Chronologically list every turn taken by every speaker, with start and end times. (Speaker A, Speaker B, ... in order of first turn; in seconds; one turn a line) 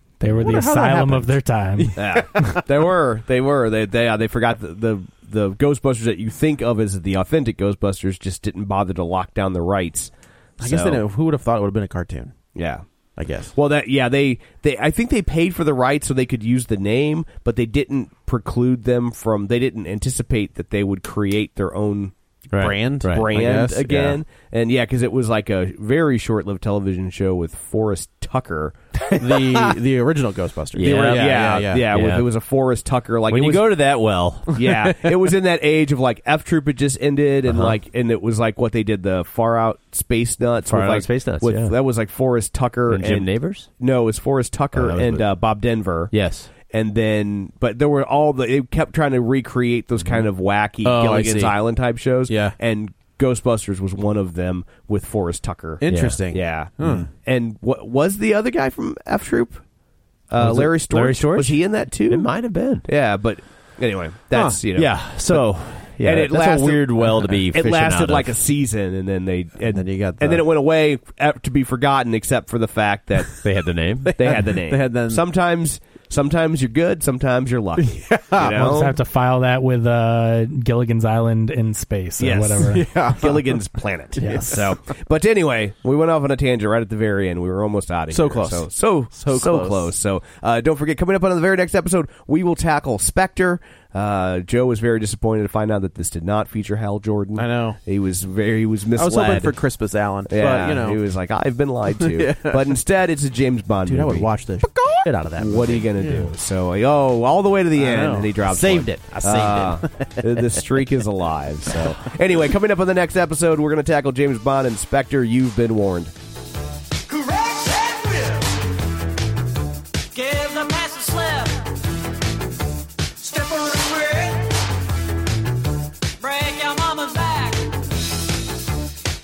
Speaker A: 0.2-2.6
Speaker B: 0.2-2.6
Speaker C: 1.9-11.0
Speaker B: 10.6-12.5
Speaker C: 12.5-12.9
Speaker B: 13.2-13.5
Speaker C: 13.5-22.1
Speaker D: 22.5-23.3
Speaker B: 22.5-24.2
Speaker C: 23.0-28.7
Speaker B: 29.2-31.8
Speaker D: 30.7-32.2
Speaker C: 30.8-33.8
Speaker D: 33.3-34.6
Speaker C: 34.5-59.6
Speaker D: 37.5-37.8
Speaker D: 40.6-41.8
Speaker D: 42.9-43.7
Speaker D: 44.7-45.3
Speaker D: 46.1-46.5
Speaker B: 50.8-51.6
Speaker B: 52.3-52.6
Speaker B: 55.8-57.1
Speaker D: 55.9-56.2
Speaker C: 60.3-73.4
Speaker D: 60.4-62.9
Speaker B: 64.3-64.6
Speaker D: 64.7-68.4
Speaker B: 69.7-70.5
Speaker D: 73.4-74.4
Speaker B: 74.1-75.2
Speaker C: 74.2-79.0
Speaker B: 77.8-78.8
Speaker A: 78.5-82.9
Speaker C: 82.2-116.1
Speaker B: 82.6-84.7
Speaker A: 84.2-84.6
Speaker B: 88.1-89.9
Speaker B: 97.3-97.8
Speaker B: 99.0-101.0
Speaker B: 101.9-102.6
Speaker B: 103.8-106.3
Speaker B: 107.8-110.3
Speaker E: 117.1-118.6
Speaker E: 120.1-121.6
Speaker E: 123.2-124.5
Speaker E: 126.2-127.7